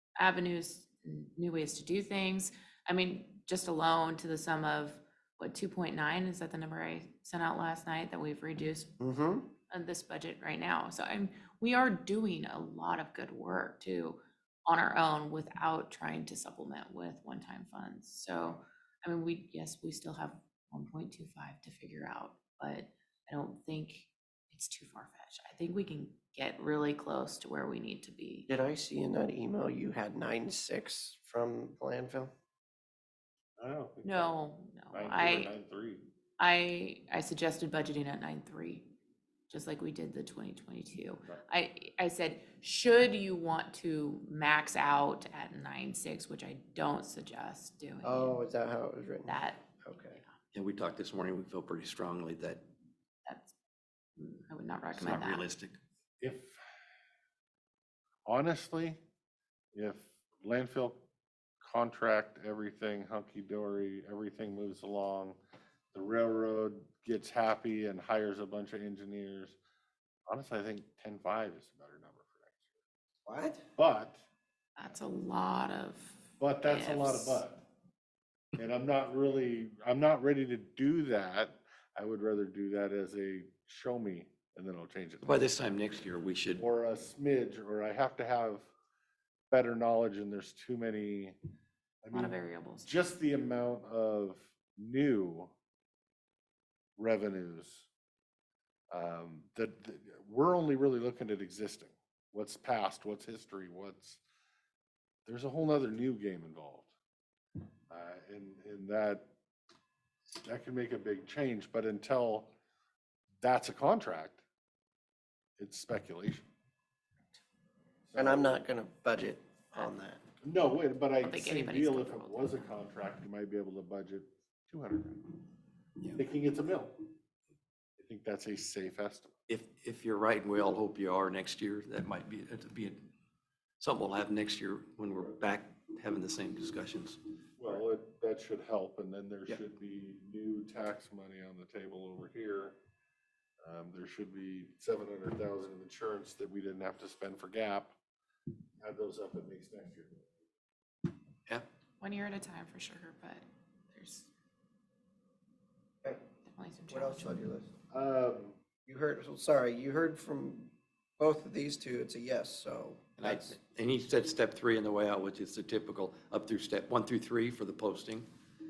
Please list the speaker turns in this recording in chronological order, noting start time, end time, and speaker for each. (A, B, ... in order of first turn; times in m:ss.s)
0:00.2-0:09.0 A
0:09.0-0:09.5 B
0:09.7-0:28.5 A
0:28.5-0:32.3 B
0:33.6-0:36.0 C
0:34.0-0:35.5 A
0:36.4-0:38.9 A
0:39.5-0:48.4 A
0:48.0-0:50.2 B
0:49.3-0:50.4 A
0:50.5-0:52.6 D
0:53.2-0:53.5 A
0:54.2-0:55.5 A
0:54.9-0:55.8 D
0:56.2-0:56.6 C
0:58.3-0:59.0 C
0:59.7-1:01.0 C
1:01.6-1:05.4 C
1:05.9-1:09.6 C
1:10.3-1:12.6 C
1:13.3-1:13.6 B
1:13.8-1:14.2 C
1:14.8-1:17.4 A
1:16.4-1:17.6 C
1:18.6-1:25.8 C
1:25.2-1:26.6 D
1:26.6-1:28.7 C
1:29.5-1:31.4 C
1:32.0-1:35.5 C
1:32.1-1:33.0 A
1:37.0-1:37.9 C
1:38.9-1:44.2 C
1:45.3-1:46.9 C
1:47.9-1:49.3 C
1:50.3-1:52.5 C
1:53.4-1:54.4 C
1:55.6-1:56.5 C
1:58.1-1:58.6 C
1:58.2-2:00.2 B
2:00.4-2:05.4 C
2:01.2-2:02.7 A
2:06.2-2:07.1 C
2:08.0-2:09.3 C
2:09.5-2:13.0 D
2:13.8-2:17.2 D
2:17.6-2:22.8 C
2:23.6-2:28.0 C
2:28.8-2:30.2 C
2:32.0-2:34.3 A
2:36.4-2:37.3 A
2:36.9-2:37.7 B
2:37.9-2:38.6 C
2:38.9-2:43.5 B
2:43.2-2:48.3 D